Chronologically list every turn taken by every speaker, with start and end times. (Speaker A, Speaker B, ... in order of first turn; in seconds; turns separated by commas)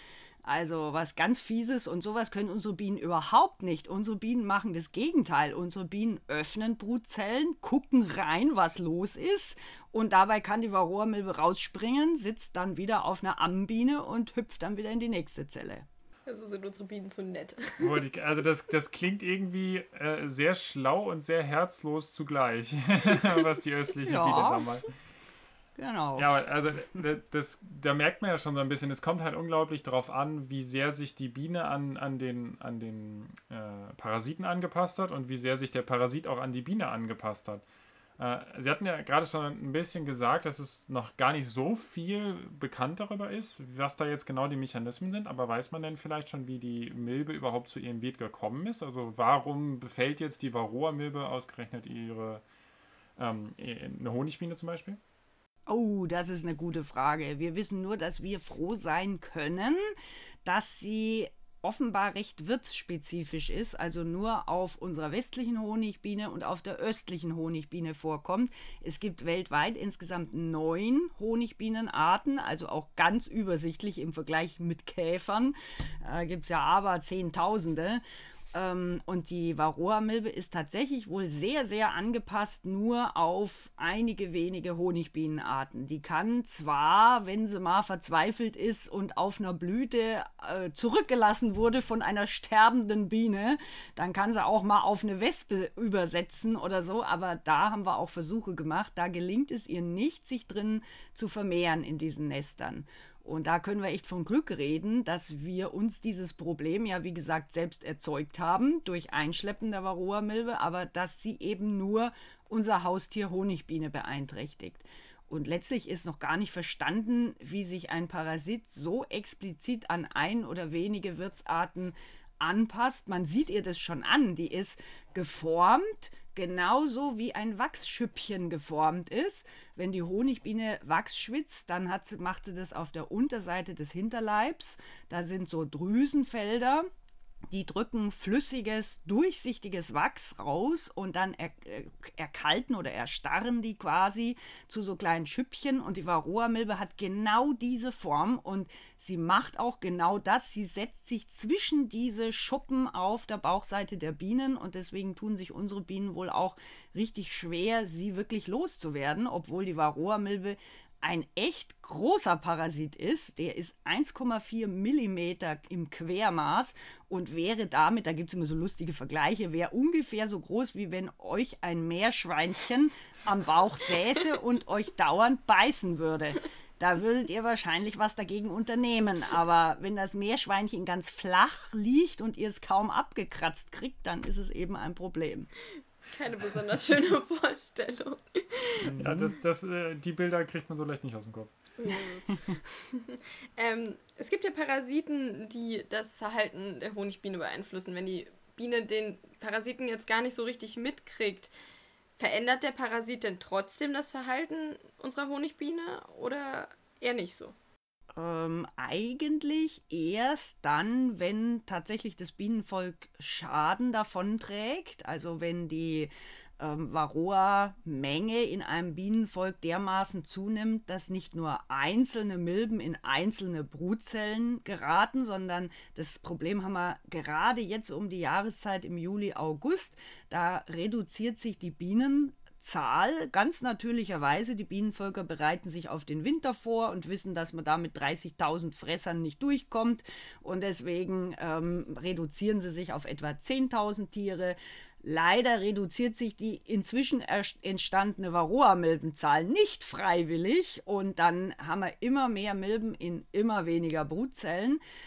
Speaker A: 0.4-15.8, Speaker B: 16.3-17.9, Speaker C: 17.8-24.9, Speaker A: 24.0-24.7, Speaker A: 25.8-26.3, Speaker C: 26.2-37.6, Speaker C: 38.2-52.4, Speaker C: 53.2-55.0, Speaker A: 55.7-59.9, Speaker A: 60.4-78.0, Speaker A: 78.5-136.9, Speaker A: 137.5-185.5, Speaker B: 186.1-188.9, Speaker A: 188.8-189.3, Speaker C: 188.9-191.5, Speaker B: 191.8-201.5, Speaker B: 202.2-207.6, Speaker A: 208.1-254.8